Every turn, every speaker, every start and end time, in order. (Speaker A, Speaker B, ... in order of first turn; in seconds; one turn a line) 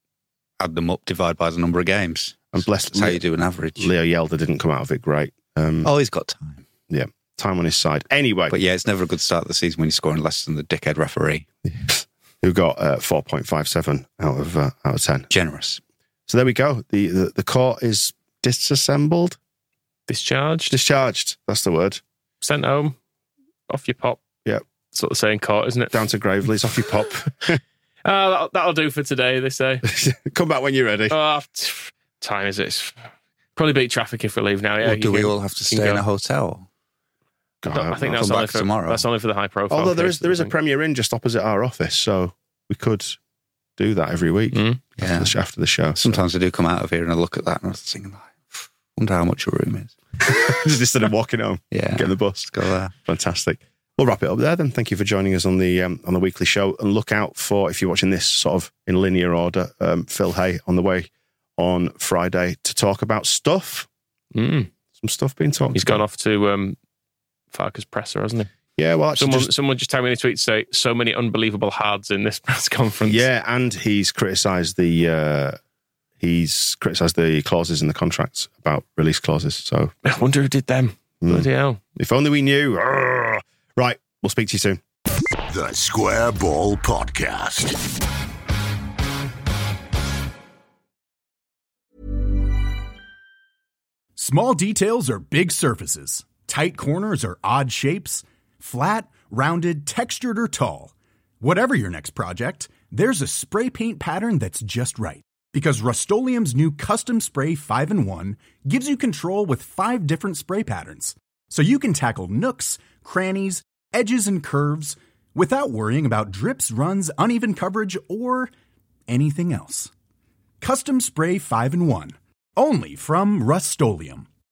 Speaker A: 0.6-3.9
Speaker B: 2.5-3.2
Speaker B: 3.8-5.9
Speaker A: 5.8-6.6
Speaker B: 6.9-8.5
Speaker A: 8.5-11.5
Speaker B: 11.7-15.3
Speaker A: 15.3-15.8
Speaker B: 16.3-19.4
Speaker C: 20.1-20.7
Speaker B: 20.7-22.0
Speaker C: 22.4-22.9
Speaker C: 23.7-24.2
Speaker C: 24.9-26.0
Speaker B: 25.9-27.6
Speaker C: 28.0-29.8
Speaker B: 29.9-31.1
Speaker C: 31.1-36.0
Speaker A: 34.8-36.7
Speaker B: 37.6-38.3
Speaker C: 37.7-40.5
Speaker A: 38.1-39.0
Speaker B: 39.7-43.2
Speaker B: 43.8-46.2
Speaker C: 44.5-44.8
Speaker A: 45.0-45.4
Speaker A: 45.9-50.0
Speaker B: 50.2-52.5
Speaker A: 51.7-52.9
Speaker B: 53.1-63.9
Speaker C: 64.3-64.7
Speaker B: 65.0-66.0
Speaker C: 65.7-66.8
Speaker C: 67.5-68.5
Speaker B: 68.8-69.5
Speaker C: 69.2-73.2
Speaker B: 73.0-75.6
Speaker B: 76.2-79.9
Speaker C: 80.0-81.8
Speaker B: 81.2-84.8
Speaker D: 85.5-87.8
Speaker E: 94.2-118.5
Speaker E: 119.1-119.9
Speaker E: 120.6-124.3